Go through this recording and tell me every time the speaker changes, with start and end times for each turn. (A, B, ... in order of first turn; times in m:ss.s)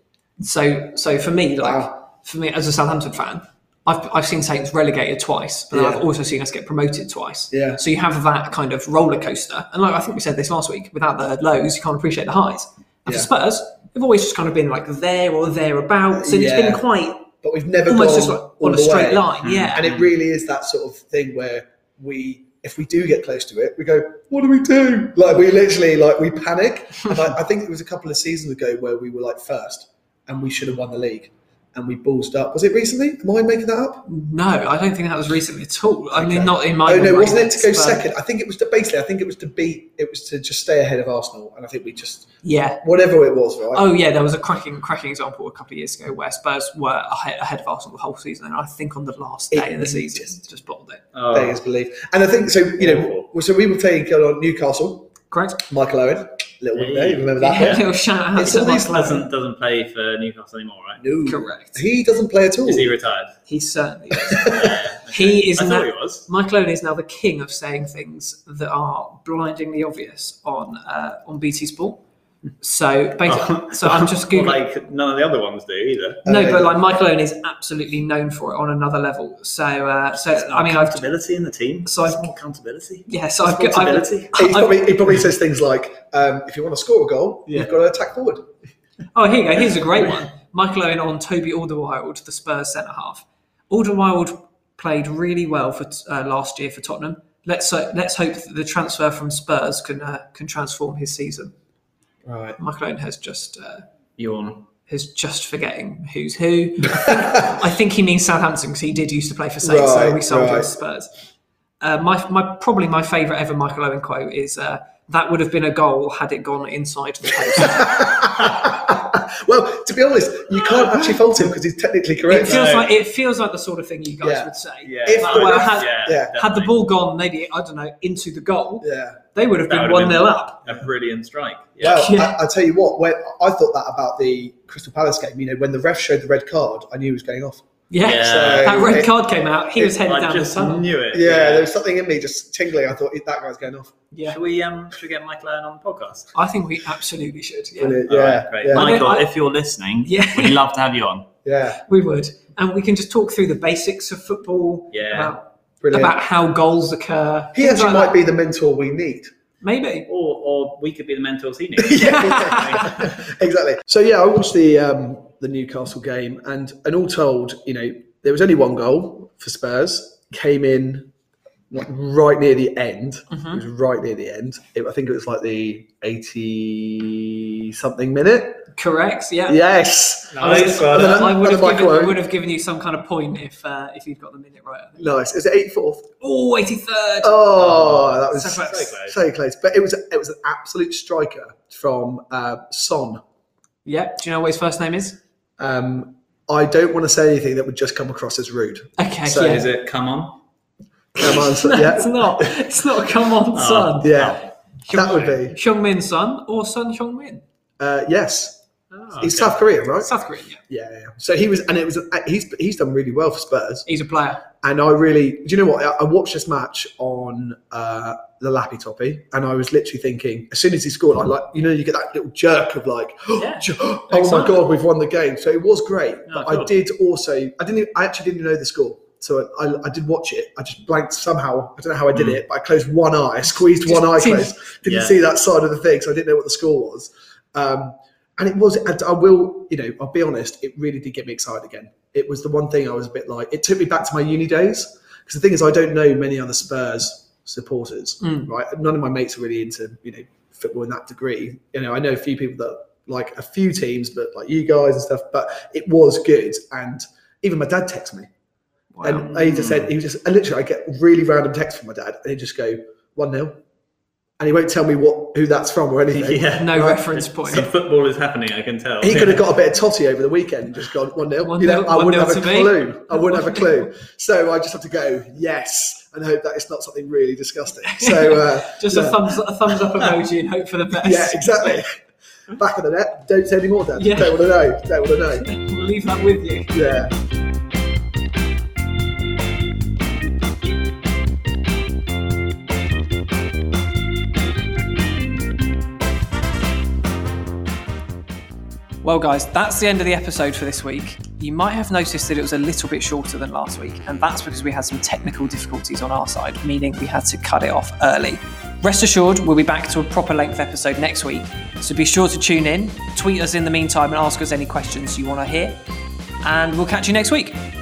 0:00.4-0:17.3 A
0:01.6-0:01.9 B
0:05.7-0:06.0 B
0:07.5-0:07.8 B
0:16.2-0:16.9 B
0:17.4-0:34.1 B
0:17.9-0:19.9 A
0:19.4-0:20.1 C
0:34.1-0:38.1 A
0:36.1-0:42.3 B
0:42.4-0:42.8 A
0:42.8-0:43.9 B
0:43.7-0:51.0 A
0:49.5-0:50.4 B
0:51.1-0:51.6 C
0:51.3-0:55.1 B
0:52.8-0:53.2 C
0:55.3-0:55.6 A
0:55.7-0:59.0 B
0:56.7-0:57.8 C
0:57.4-0:59.3 A
0:58.4-1:01.0 C
1:01.0-1:02.9 B
1:01.2-1:01.8 A
1:02.6-1:03.3 C
1:03.5-1:04.6 A
1:04.3-1:04.7 B
1:04.4-1:06.2 C
1:05.1-1:12.0 A
1:12.6-1:14.6 A
1:13.2-1:16.2 C
1:16.2-1:16.8 B
1:16.2-1:21.1 A
1:20.3-1:24.3 C
1:21.8-1:22.4 A
1:23.1-1:24.9 A
1:24.4-1:28.4 B
1:29.1-1:41.5 A
1:42.3-1:42.6 B
1:42.6-1:43.8 A
1:44.2-1:44.6 C
1:44.9-1:51.1 A
1:49.6-1:50.7 B
1:51.8-1:58.1 A
1:57.6-2:02.6 B
2:00.6-2:01.0 C
2:02.3-2:10.6 A
2:02.3-2:02.9 C
2:04.2-2:04.5 B
2:04.8-2:06.7 C
2:05.0-2:06.4 B
2:08.8-2:09.2 B
2:09.7-2:12.0 C
2:11.8-2:19.1 B
2:11.8-2:12.4 A
2:17.9-2:20.9 A
2:18.0-2:18.8 C
2:19.8-2:21.7 C
2:21.1-2:24.0 B
2:24.1-2:24.4 A
2:24.2-2:26.3 C
2:26.4-2:28.0 A
2:27.8-2:29.0 B
2:28.1-2:31.3 C
2:28.7-2:29.4 A
2:30.0-2:30.6 A
2:31.4-2:31.8 B
2:31.8-2:38.2 A
2:34.9-2:35.3 C
2:35.8-2:36.2 B
2:37.6-2:39.3 B
2:39.6-2:40.1 A
2:40.1-2:43.0 C
2:41.8-2:51.1 B
2:42.0-2:42.9 A
2:51.7-2:58.7 B
2:53.3-2:53.6 A
2:58.8-2:59.6 A
2:59.5-3:02.2 B
3:00.3-3:01.4 C
3:00.4-3:05.2 A
3:05.0-3:06.1 B
3:06.2-3:07.4 A
3:07.2-3:13.2 B
3:07.6-3:09.2 C
3:08.4-3:08.9 A
3:13.8-3:15.2 A
3:15.6-3:19.6 B
3:19.0-3:19.6 A
3:19.4-3:20.4 C
3:21.2-3:22.5 B
3:21.2-3:24.2 A
3:23.5-3:25.4 C
3:24.0-3:25.6 B
3:24.9-3:27.4 A
3:27.8-3:28.6 B
3:28.9-3:29.3 A
3:29.1-3:29.6 C
3:29.2-3:30.1 B
3:30.0-3:30.6 A
3:30.7-3:33.9 B
3:33.9-3:34.4 A
3:34.6-4:18.3 B
3:43.4-3:44.6 A
3:44.1-3:44.6 C
3:46.3-3:46.7 C
3:52.1-3:52.4 C
3:53.8-3:54.5 A
3:54.8-3:55.2 C
4:08.2-4:08.5 A
4:18.9-4:19.3 A
4:19.0-4:23.6 B
4:19.3-4:19.9 C
4:24.4-4:27.7 B
4:26.1-4:29.5 C
4:26.5-4:27.7 A
4:29.0-4:39.3 B
4:31.4-4:33.9 A
4:37.9-4:41.8 A
4:41.0-4:45.4 B
4:44.0-4:44.6 A
4:45.4-4:46.8 A
4:46.7-4:47.1 B
4:59.0-5:15.8 A
5:16.4-5:17.6 A